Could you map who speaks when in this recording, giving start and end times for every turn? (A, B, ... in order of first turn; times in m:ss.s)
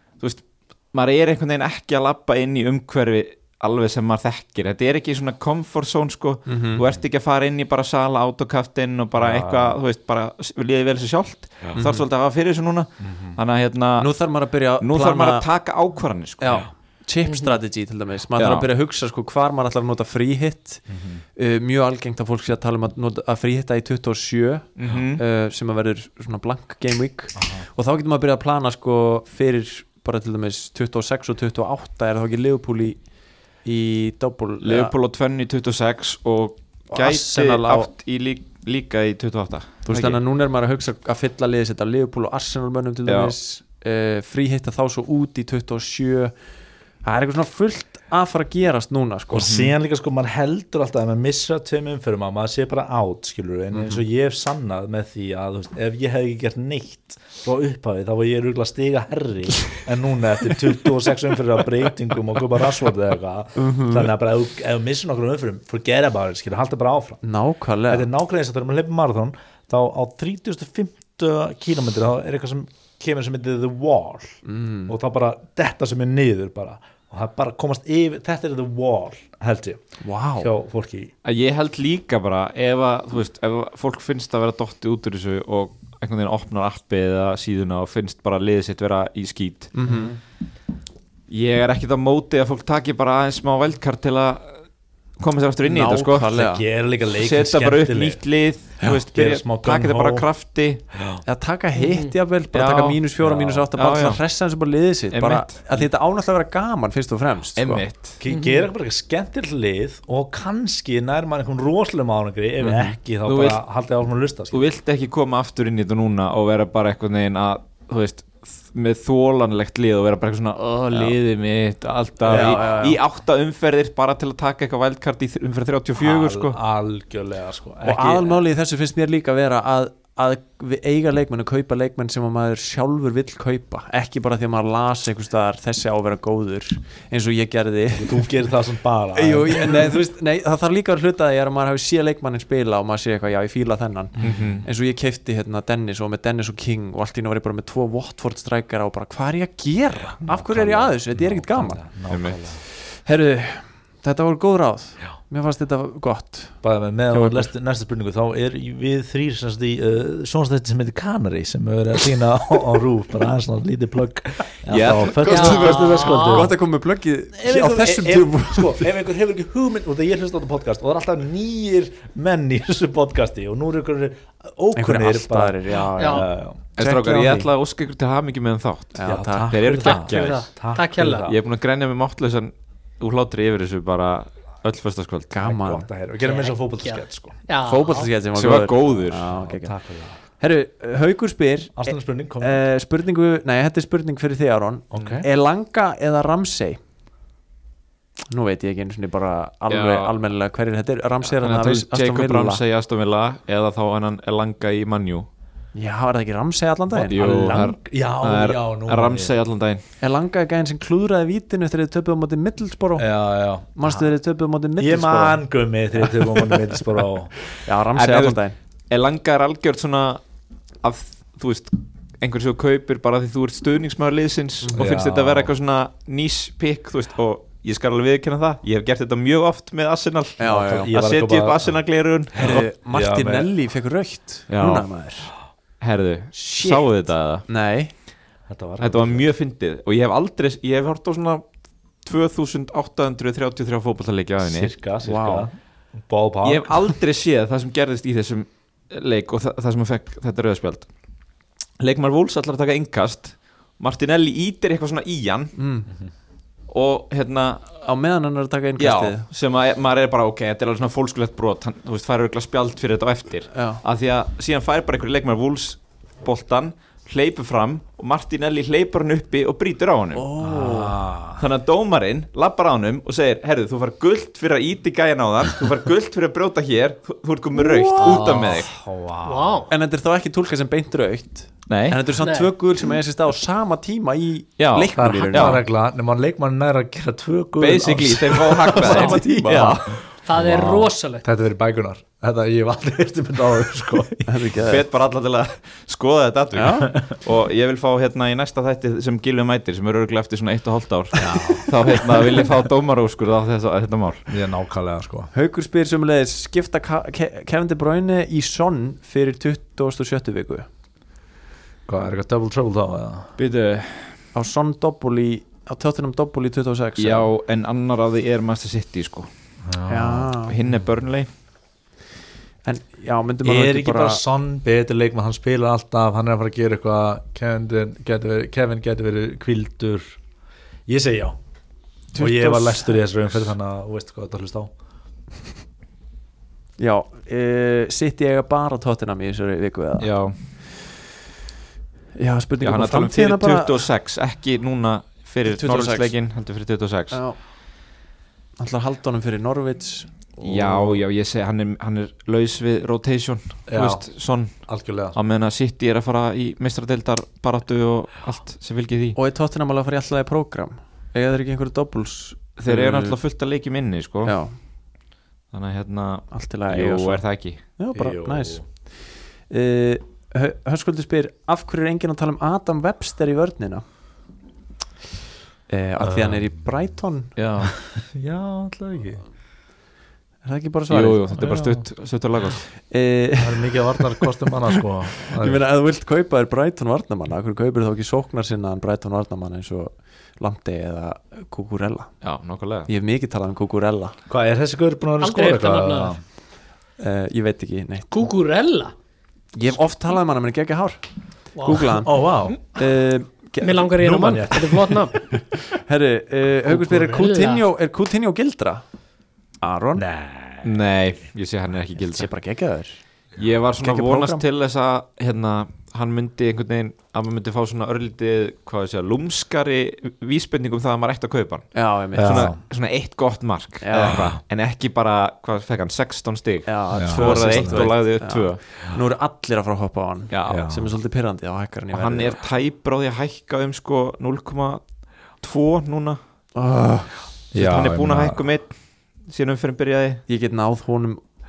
0:00.2-0:14.1 A
0:06.5-0:06.8 B
0:09.2-0:09.7 C
0:11.8-0:12.1 B
0:13.0-0:13.4 C
0:14.0-0:15.5 B
0:14.8-0:16.7 A
0:16.4-0:20.8 B
0:17.2-0:17.6 D
0:18.4-0:18.7 A
0:20.9-0:21.2 C
0:21.4-0:35.0 B
0:24.8-0:25.2 A
0:27.4-0:27.7 C
0:34.6-0:40.2 A
0:36.9-0:37.9 B
0:39.9-0:46.4 B
0:43.1-0:43.3 A
0:47.0-0:49.6 B
0:49.3-1:07.2 C
0:49.4-0:49.7 A
0:53.7-0:54.0 B
1:03.6-1:04.1 B
1:07.2-1:08.1 B
1:07.9-1:19.8 C
1:14.4-1:14.9 B
1:20.0-1:20.5 B
1:20.4-1:21.1 C
1:21.2-1:29.7 A
1:29.7-1:30.1 B
1:29.9-1:30.1 C
1:31.3-1:34.6 A
1:35.2-1:36.3 A
1:35.6-1:36.6 B
1:36.3-1:38.2 C
1:37.2-1:40.8 A
1:38.8-1:40.3 C
1:40.9-1:41.2 C
1:41.2-1:47.9 B
1:41.8-1:42.1 D
1:42.5-1:44.2 A
1:45.1-1:45.8 A
1:47.6-1:48.2 A
1:48.2-1:54.7 C
1:48.3-1:48.7 D
1:52.6-1:52.9 B
1:53.3-1:53.6 A
1:54.5-2:06.6 A
2:02.2-2:03.0 B
2:02.3-2:02.6 C
2:06.0-2:08.4 C
2:07.8-2:18.3 B
2:18.0-2:19.9 C
2:19.1-2:31.8 B
2:24.2-2:24.6 C
2:24.2-2:24.6 A
2:30.2-2:32.6 C
2:32.1-2:32.4 A
2:32.6-2:37.5 B
2:36.6-2:46.6 C
2:44.7-2:45.8 A
2:45.2-2:48.9 B
2:45.2-2:46.5 D
2:47.3-2:56.6 C
2:54.8-2:57.5 B
2:56.0-2:56.2 D
2:56.8-3:00.5 A
2:59.0-2:59.6 B
2:59.0-3:01.4 C
2:59.8-3:01.3 D
3:01.2-3:05.3 A
3:05.3-3:05.9 B
3:05.4-3:07.4 C
3:06.2-3:08.1 D
3:07.7-3:09.8 B
3:08.4-3:09.2 A
3:09.1-3:10.2 C
3:10.4-3:16.8 B
3:11.8-3:12.6 C
3:14.9-3:15.3 C
3:18.3-3:22.6 B
3:19.7-3:20.1 A
3:21.3-3:25.3 A
3:25.7-3:27.6 B
3:26.9-3:29.8 A
3:27.1-3:29.3 C
3:30.0-3:33.1 B
3:33.0-3:34.1 C
3:33.8-3:35.4 B
3:34.8-3:37.5 C
3:36.0-3:36.8 B
3:37.6-3:38.6 B
3:37.9-3:40.2 A
3:40.8-3:52.6 A
3:44.6-3:45.0 B
3:44.8-3:45.5 C
3:50.4-3:50.9 B
3:50.4-3:51.8 C
3:52.3-3:53.5 C
3:52.4-3:55.3 B
3:54.5-3:54.9 A
3:55.8-3:57.4 A
3:56.4-3:56.9 B
3:57.5-3:57.9 B
3:58.5-3:59.3 C
3:58.8-4:01.5 A
4:02.0-4:04.7 A
4:04.4-4:06.9 C
4:05.0-4:05.5 B
4:06.4-4:10.9 A
4:11.8-4:15.5 A
4:15.6-4:15.9 B
4:16.7-4:17.7 A
4:17.8-4:19.3 B
4:18.8-4:30.3 A
4:23.5-4:23.8 B
4:30.1-4:31.0 B
4:30.4-4:31.4 C
4:31.4-4:38.7 A
4:37.6-4:38.6 B
4:38.0-4:39.6 C
4:39.2-4:39.7 D
4:39.7-4:45.6 B
4:41.7-4:42.0 A
4:42.2-4:42.5 D
4:44.6-4:45.6 A
4:45.0-4:49.7 C
4:47.6-4:50.0 A
4:48.3-4:49.8 B
4:50.2-4:51.2 D
4:50.3-4:54.5 C
4:54.3-4:54.9 B
4:54.6-5:04.2 A
4:56.5-4:56.9 B
5:01.2-5:01.8 C
5:04.3-5:05.3 C
5:05.3-5:10.7 B
5:11.9-5:13.3 C
5:13.4-5:14.2 A
5:14.3-5:17.3 B
5:17.0-5:19.3 A
5:19.7-5:20.3 C
5:19.9-5:20.6 B
5:20.4-5:21.3 A
5:22.6-5:24.2 B
5:23.4-5:30.2 C
5:30.9-5:31.4 C
5:32.1-5:33.0 B
5:32.2-5:34.7 C
5:36.8-5:40.1 B
5:40.0-5:40.4 A
5:42.2-5:43.9 B
5:42.6-5:47.2 A
5:45.4-5:46.2 B
5:47.1-5:47.4 B
5:48.6-5:51.0 B
5:50.4-5:59.2 A
5:53.7-5:55.2 C
5:59.2-6:03.2 B
6:02.6-6:04.4 A
6:04.2-6:04.5 B
6:05.5-6:07.6 A
6:06.3-6:08.9 B
6:07.9-6:08.6 C
6:09.4-6:13.8 B
6:15.7-6:17.3 B
6:16.0-6:16.5 C
6:17.4-6:17.8 A
6:17.6-6:19.2 C
6:20.4-6:21.4 B
6:20.9-6:22.6 A
6:21.3-6:21.8 C
6:22.9-6:32.1 B
6:23.4-6:25.6 C
6:32.2-6:32.9 A
6:32.9-6:34.2 B
6:34.3-6:36.2 C
6:35.2-6:36.2 D
6:37.0-6:38.1 B
6:38.1-6:38.9 D
6:39.5-6:41.0 B
6:41.6-6:42.0 D
6:41.6-6:44.5 B
6:42.0-6:42.6 C
6:43.6-6:45.2 D
6:44.0-6:45.0 C
6:45.4-6:48.8 B
6:46.7-6:47.2 C
6:47.1-6:47.6 D
6:49.6-6:50.0 B
6:50.0-6:50.7 C
6:50.6-6:52.3 A
6:52.0-6:53.0 B
6:53.4-7:08.6 A
6:53.8-6:54.4 B
7:01.7-7:02.5 B
7:02.2-7:02.6 C
7:03.8-7:04.3 B
7:04.0-7:04.4 C
7:06.7-7:12.4 B
7:06.9-7:07.9 C
7:10.3-7:10.7 A
7:10.5-7:10.9 C
7:11.9-7:14.8 A
7:15.4-7:16.2 A
7:16.6-7:17.2 B
7:17.5-7:18.4 C
7:17.5-7:20.2 A
7:20.3-7:21.2 B